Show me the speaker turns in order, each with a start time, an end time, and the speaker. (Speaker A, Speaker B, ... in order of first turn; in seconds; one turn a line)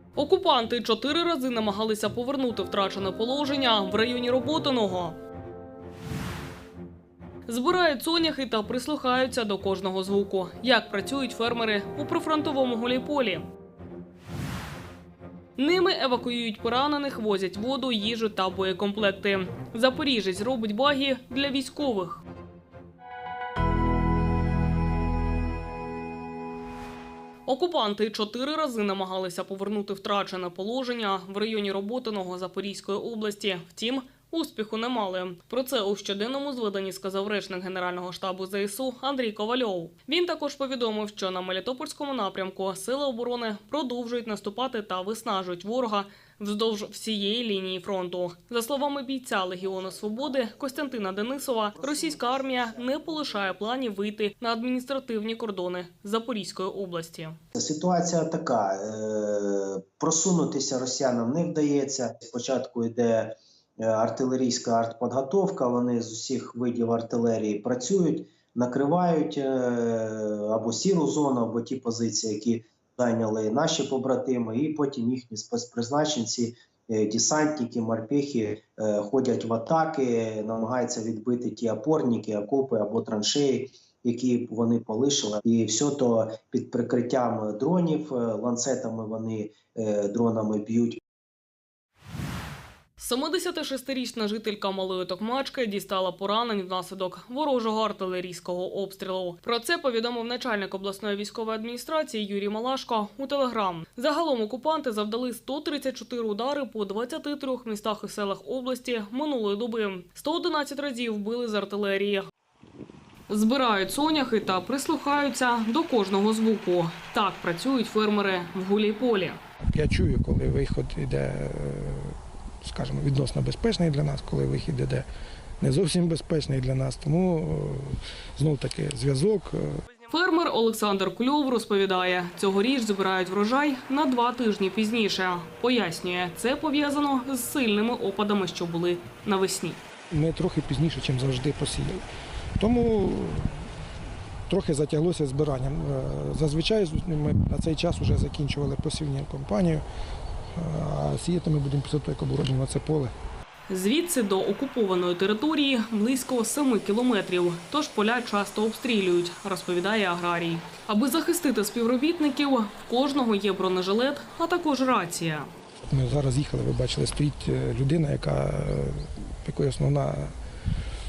Speaker A: 0.2-5.2
Speaker A: 7.5-13.5
Speaker A: 15.6-22.2
Speaker A: 27.5-57.4
Speaker B: 57.5-91.0
Speaker A: 93.0-112.3
Speaker A: 113.3-119.4
Speaker C: 119.7-125.1
Speaker C: 125.6-129.7
Speaker A: 130.1-139.8
Speaker C: 140.1-142.0
Speaker C: 142.6-143.5
Speaker C: 144.5-149.8
Speaker C: 150.6-153.1
Speaker A: 153.7-165.5
Speaker C: 165.9-170.3